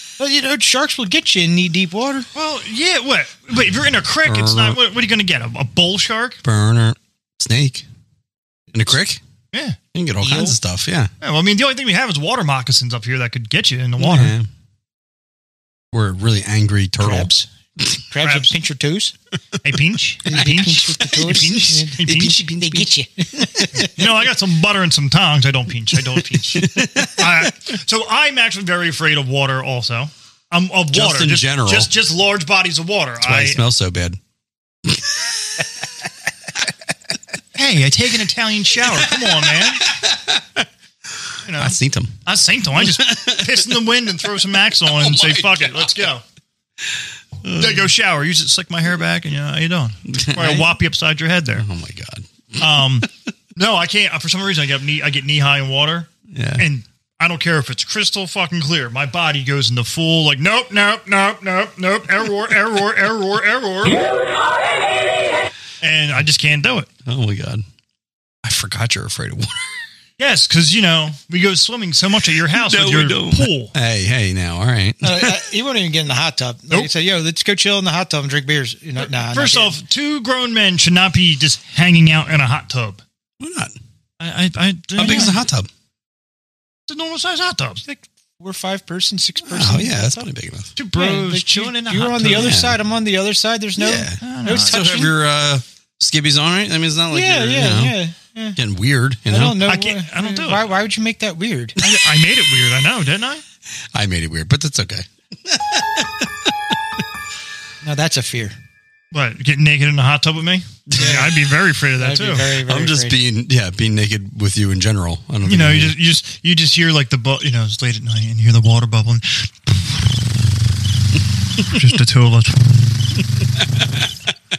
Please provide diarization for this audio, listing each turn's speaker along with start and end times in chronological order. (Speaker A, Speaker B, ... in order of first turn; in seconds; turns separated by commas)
Speaker A: 0.2-2.3, Speaker B: 2.3-6.4, Speaker C: 4.2-4.8, Speaker C: 6.4-7.8, Speaker C: 8.7-9.2, Speaker B: 9.5-9.8, Speaker C: 9.9-11.1, Speaker A: 10.2-10.6, Speaker B: 11.2-14.3, Speaker C: 14.0-14.5, Speaker C: 15.9-17.3, Speaker A: 17.0-17.5, Speaker A: 18.0-19.1, Speaker B: 18.2-18.5, Speaker B: 19.6-22.4, Speaker A: 20.2-24.0, Speaker C: 21.2-22.9, Speaker B: 23.8-33.6, Speaker C: 26.2-27.5, Speaker C: 30.9-31.9, Speaker C: 33.2-34.2, Speaker C: 34.8-36.1, Speaker B: 37.5-39.9, Speaker C: 38.9-40.7, Speaker C: 41.2-42.2, Speaker B: 41.4-46.2, Speaker C: 42.8-43.8, Speaker C: 44.8-46.1, Speaker C: 47.4-47.9, Speaker B: 47.5-51.6, Speaker C: 50.1-50.6, Speaker C: 51.5-53.1, Speaker B: 52.6-64.0, Speaker C: 56.3-56.6, Speaker B: 65.8-66.9, Speaker C: 67.0-67.6, Speaker C: 68.4-69.8, Speaker B: 70.2-73.7, Speaker C: 72.5-75.4, Speaker A: 75.0-79.8, Speaker B: 79.0-83.0, Speaker C: 83.4-83.7, Speaker B: 84.2-85.4, Speaker C: 85.0-85.7, Speaker A: 85.0-85.3, Speaker B: 86.9-87.8, Speaker A: 87.8-90.3, Speaker C: 89.5-90.7, Speaker B: 90.8-92.6, Speaker A: 90.9-95.1, Speaker C: 92.2-92.8, Speaker C: 93.8-98.0, Speaker B: 94.2-95.0, Speaker A: 97.1-98.6, Speaker C: 98.6-99.6, Speaker A: 99.3-101.8, Speaker B: 99.6-100.7, Speaker B: 101.8-103.4, Speaker C: 103.9-106.8, Speaker A: 107.8-108.5, Speaker B: 109.1-112.5, Speaker C: 110.9-111.4, Speaker A: 111.0-111.3, Speaker A: 112.0-113.2, Speaker C: 112.6-116.0, Speaker B: 115.5-120.0, Speaker B: 121.6-123.2